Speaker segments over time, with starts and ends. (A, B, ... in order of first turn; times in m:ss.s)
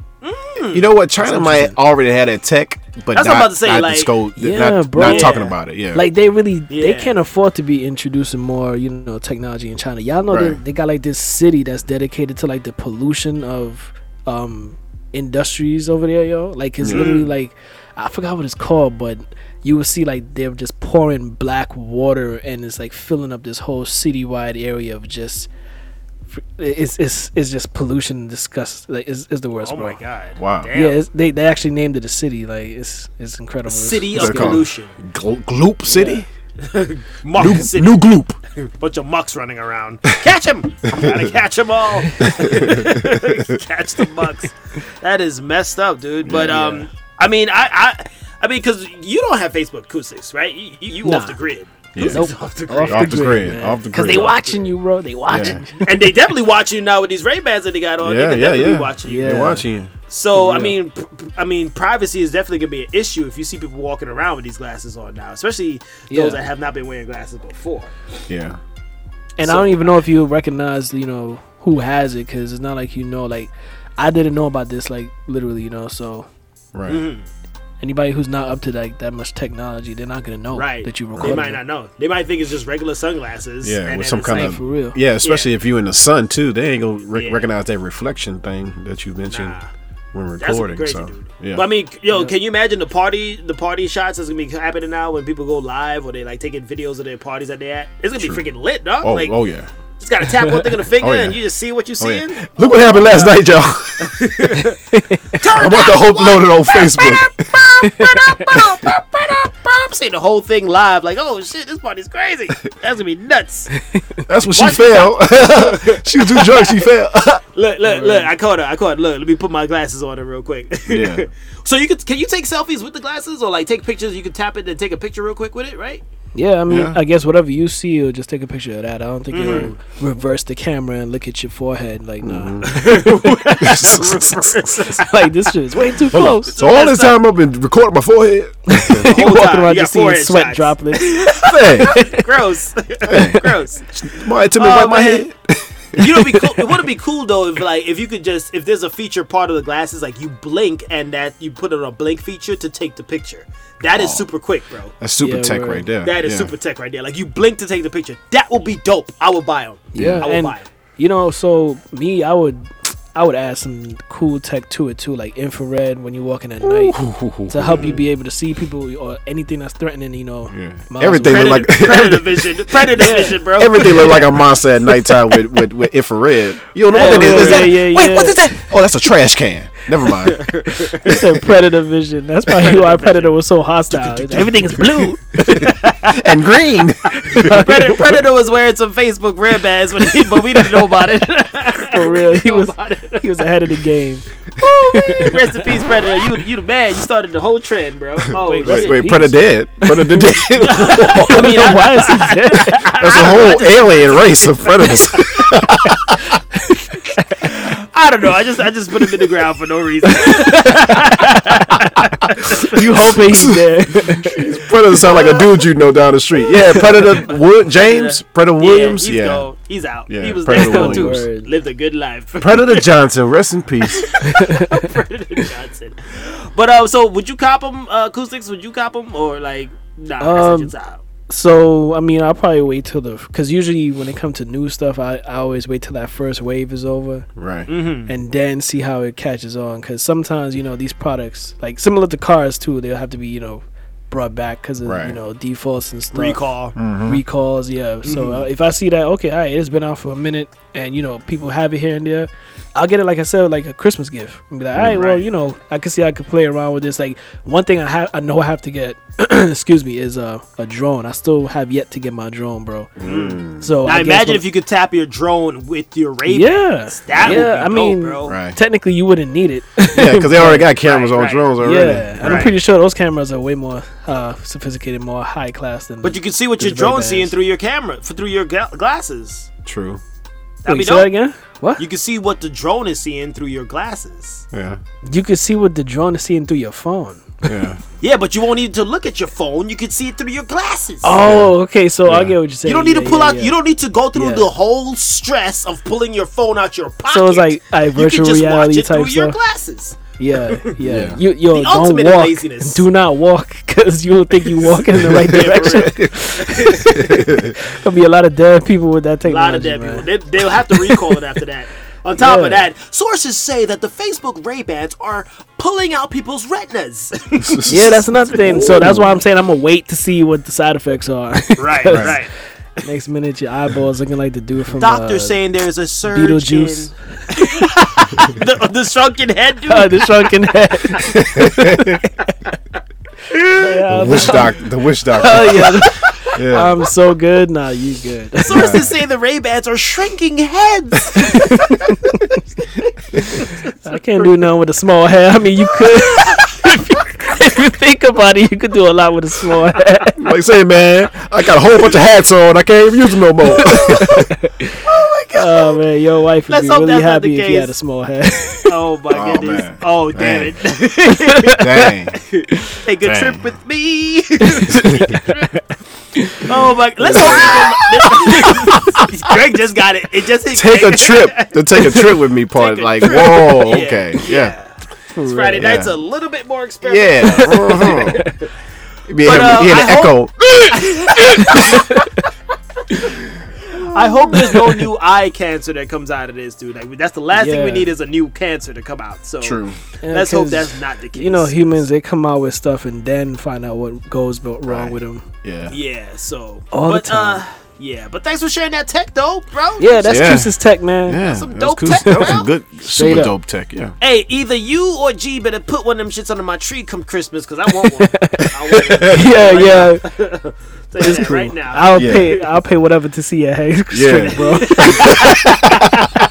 0:00.2-0:00.9 A
0:00.7-0:06.1 B
0:01.2-0:01.7 C
0:03.1-0:04.1 A
0:04.4-0:25.5 C
0:05.0-0:05.5 A
0:06.7-0:07.2 A
0:10.3-0:10.6 B
0:16.8-0:17.2 B
0:16.9-0:17.3 A
0:26.3-0:30.0 C
0:29.6-0:31.0 A
0:30.4-0:30.7 B
0:30.7-0:34.6 C
0:33.6-0:35.0 A
0:34.1-0:36.2 B
0:35.9-0:36.2 C
0:36.6-0:38.0 A
0:37.3-0:38.4 B
0:38.6-0:53.4 A
0:40.9-0:41.2 B
0:42.2-0:43.4 B
0:42.3-0:42.6 C
0:46.2-0:46.7 B
0:46.3-0:46.9 C
0:51.0-0:51.4 C
0:51.9-0:52.3 B
0:52.0-0:56.1 C
0:52.8-0:54.6 B
0:55.3-0:55.6 B
0:55.8-0:59.5 A
0:58.0-0:59.9 B
0:59.0-0:59.6 C
1:00.1-1:07.9 A
1:00.3-1:00.8 C
1:06.1-1:06.4 C
1:08.3-1:08.6 B
1:09.4-1:16.3 C
1:09.4-1:10.0 A
1:16.7-1:17.0 B
1:16.9-1:17.3 A
1:17.8-1:21.6 C
1:20.5-1:24.6 A
1:23.6-1:29.6 B
1:24.2-1:25.0 C
1:25.2-1:25.5 A
1:27.1-1:27.5 A
1:29.3-1:29.7 A
1:30.1-1:31.6 B
1:30.4-1:39.4 A
1:38.2-1:38.4 B
1:39.0-1:39.7 B
1:40.0-1:43.4 A
1:41.0-1:41.4 B
1:42.0-1:44.4 B
1:44.0-1:44.8 A
1:44.9-1:45.3 C
1:45.3-1:53.7 A
1:45.4-1:47.6 B
1:47.9-1:48.5 C
1:54.2-1:57.4 B
1:54.5-1:56.8 A
1:57.5-2:06.0 A
1:57.8-1:58.3 C
2:00.9-2:01.2 B
2:06.3-2:13.8 C
2:06.7-2:07.0 B
2:09.3-2:09.7 A
2:09.4-2:09.7 B
2:12.2-2:12.8 B
2:12.6-2:15.2 A
2:13.6-2:14.7 B
2:14.8-2:16.5 C
2:16.1-2:19.1 B
2:16.4-2:17.2 A
2:18.7-2:22.2 C
2:19.0-2:23.9 A
2:21.4-2:22.0 B
2:23.0-2:26.7 B
2:24.5-2:25.2 A
2:25.9-2:35.0 A
2:33.9-2:34.3 B
2:35.0-2:36.5 B
2:35.2-2:35.9 C
2:36.0-2:40.7 A
2:39.9-2:51.9 C
2:39.9-2:40.3 B
2:46.6-2:48.0 B
2:47.6-2:48.0 A
2:50.5-2:52.5 B
2:51.2-2:54.3 A
2:52.9-2:54.2 C
2:53.5-3:00.4 B
2:56.9-2:58.5 C
2:56.9-2:57.8 A
3:00.2-3:01.2 A
3:00.8-3:05.7 C
3:02.5-3:04.7 A
3:04.3-3:07.6 B
3:05.4-3:06.3 A
3:07.2-3:13.4 A
3:07.3-3:08.1 C
3:11.8-3:14.2 C
3:14.6-3:19.1 A
3:14.8-3:15.8 C
3:18.4-3:22.9 C
3:18.6-3:21.6 B
3:20.6-3:25.5 A
3:22.9-3:26.2 B
3:26.9-3:27.4 C
3:27.4-3:33.2 A
3:30.1-3:34.6 C
3:32.9-3:39.5 B
3:35.0-3:35.5 A
3:36.7-3:42.9 A
3:40.1-3:41.3 B
3:40.5-3:41.5 C
3:42.4-3:44.1 B
3:43.9-3:51.0 A
3:44.2-3:44.9 C
3:50.2-3:50.7 C
3:51.3-3:57.3 C
3:57.4-3:57.7 B
3:57.7-3:58.1 A
3:58.1-4:06.4 C
4:04.8-4:05.2 B
4:06.1-4:06.8 A
4:06.8-4:07.2 B
4:07.0-4:22.9 C
4:08.0-4:08.4 A
4:14.7-4:15.1 B
4:14.9-4:15.2 A
4:23.0-4:23.8 B
4:23.0-4:28.4 A
4:23.6-4:24.4 C
4:26.3-4:30.7 C
4:27.1-4:27.5 B
4:28.2-4:28.6 B
4:29.9-4:32.6 B
4:30.8-4:32.6 A
4:31.6-4:37.3 C
4:36.0-4:39.5 A
4:39.6-4:40.0 B
4:40.6-4:41.1 A
4:40.6-4:41.8 C
4:41.8-4:44.4 A
4:44.5-4:44.8 B
4:45.0-4:47.6 C
4:47.4-4:47.8 B
4:48.0-4:51.2 A
4:51.0-4:53.6 C
4:51.2-4:52.4 B
4:52.6-5:00.8 A
4:54.1-4:54.5 C
4:57.1-4:59.4 C
5:00.2-5:11.2 C
5:00.8-5:01.2 B
5:01.5-5:02.8 A
5:04.6-5:07.0 A
5:04.9-5:06.1 B
5:06.9-5:07.6 B
5:09.2-5:18.9 A
5:12.2-5:12.6 C
5:17.4-5:19.2 B
5:17.6-5:22.2 C
5:21.6-5:22.3 A
5:21.9-5:22.1 B
5:22.8-5:25.4 C
5:24.8-5:30.3 A
5:26.1-5:27.7 C
5:29.7-5:32.0 C
5:31.0-5:32.0 B
5:33.3-5:34.5 A
5:33.5-5:38.8 C
5:33.9-5:36.8 B
5:35.2-5:35.9 A
5:38.4-5:41.6 A
5:38.5-5:38.9 B
5:41.1-5:42.3 C
5:43.3-5:44.2 A
5:43.8-5:50.2 C
5:50.2-5:54.3 B
5:53.5-5:54.8 C
5:54.8-5:55.8 A
5:55.3-5:58.7 C
5:56.5-5:57.7 A
5:58.6-6:05.6 A
5:59.1-6:00.6 B
6:01.1-6:01.9 C
6:01.5-6:02.2 B
6:03.0-6:03.5 B
6:04.5-6:05.4 C
6:04.7-6:05.1 B
6:06.2-6:09.0 C
6:06.4-6:18.5 A
6:07.1-6:07.8 B
6:10.5-6:14.5 B
6:15.1-6:15.7 C
6:15.6-6:15.9 B
6:16.8-6:18.2 B
6:17.2-6:18.3 C
6:19.1-6:20.8 B
6:19.2-6:22.0 A
6:21.4-6:22.0 C
6:23.8-6:31.8 A
6:24.2-6:24.5 B
6:24.3-6:24.8 C
6:27.3-6:27.9 C
6:29.4-6:29.8 B
6:30.0-6:35.2 C
6:34.6-6:35.8 B
6:35.7-6:40.2 A
6:36.7-6:37.4 C
6:39.8-6:41.2 C
6:40.0-6:43.9 B
6:41.2-6:42.5 A
6:41.9-6:43.3 C
6:44.0-6:52.6 A
6:48.0-6:50.1 C
6:48.9-6:49.6 B
6:51.0-6:55.9 C
6:51.9-6:52.3 B
6:53.9-6:56.0 B
6:54.3-6:55.6 A